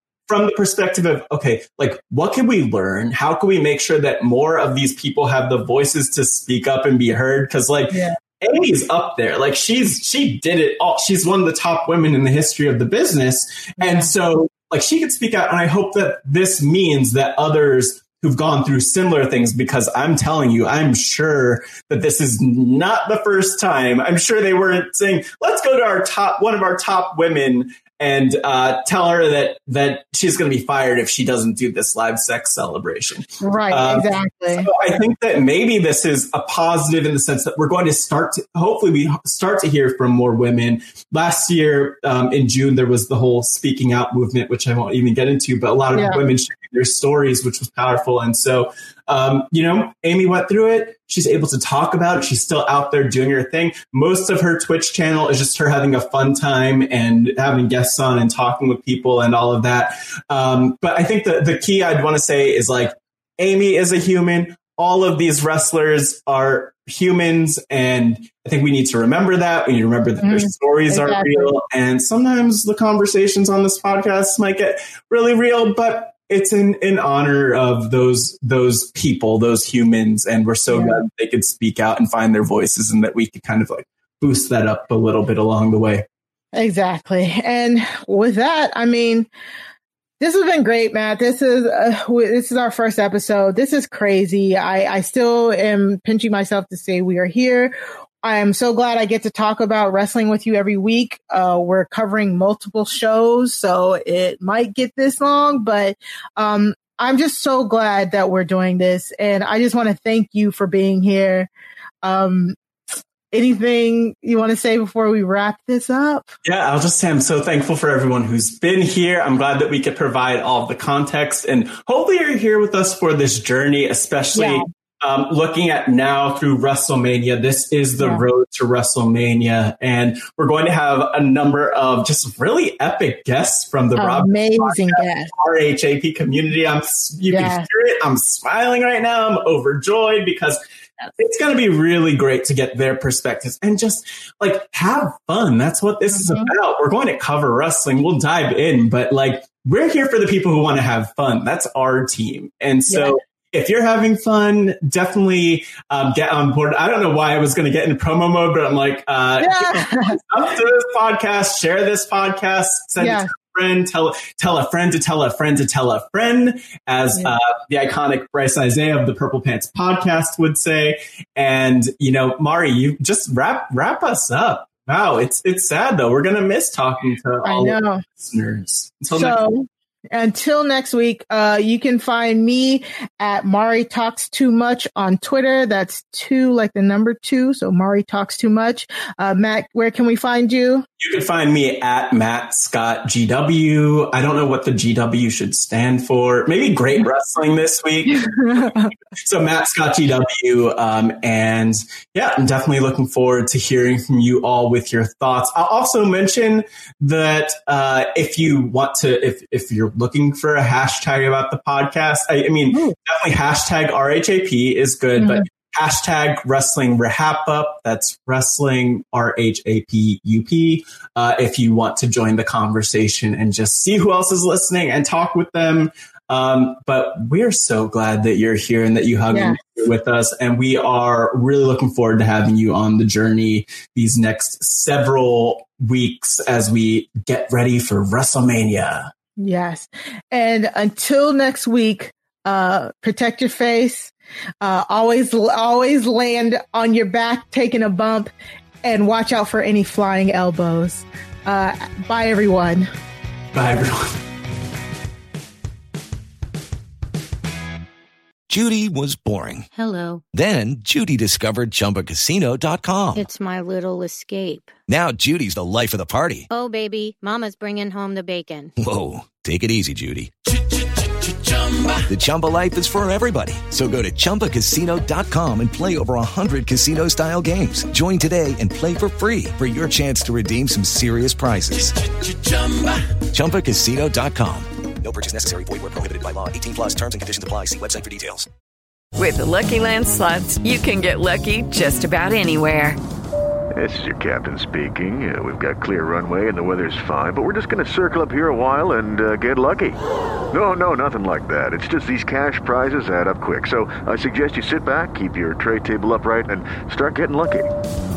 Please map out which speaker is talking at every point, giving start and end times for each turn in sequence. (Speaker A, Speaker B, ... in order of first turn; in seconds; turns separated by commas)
Speaker A: 0.3-86.0, Speaker B: 13.8-14.1, Speaker B: 33.4-34.7, Speaker B: 45.9-46.2, Speaker B: 70.2-71.5, Speaker B: 80.7-81.0, Speaker B: 86.5-89.3, Speaker B: 90.2-111.5, Speaker B: 112.0-112.6, Speaker B: 113.3-116.3, Speaker A: 116.5-140.6, Speaker B: 124.3-124.6, Speaker B: 134.0-135.3, Speaker B: 137.3-137.7, Speaker A: 141.2-179.4, Speaker B: 146.2-146.5, Speaker B: 152.9-153.2, Speaker B: 159.4-160.2, Speaker B: 163.0-163.3, Speaker B: 177.4-178.0, Speaker B: 179.1-190.8, Speaker A: 191.0-198.7, Speaker B: 198.2-198.9, Speaker A: 199.2-239.1, Speaker B: 215.2-215.5, Speaker B: 229.3-229.7, Speaker B: 239.4-248.3, Speaker B: 248.8-252.9, Speaker A: 253.5-254.2, Speaker C: 258.5-259.7, Speaker D: 259.7-260.2, Speaker C: 260.3-263.3, Speaker D: 263.1-264.7, Speaker C: 264.9-266.5, Speaker D: 266.5-268.7, Speaker C: 268.8-270.5, Speaker C: 272.1-284.7, Speaker E: 285.1-288.4, Speaker F: 289.1-293.0, Speaker G: 293.8-300.0, Speaker G: 300.5-307.7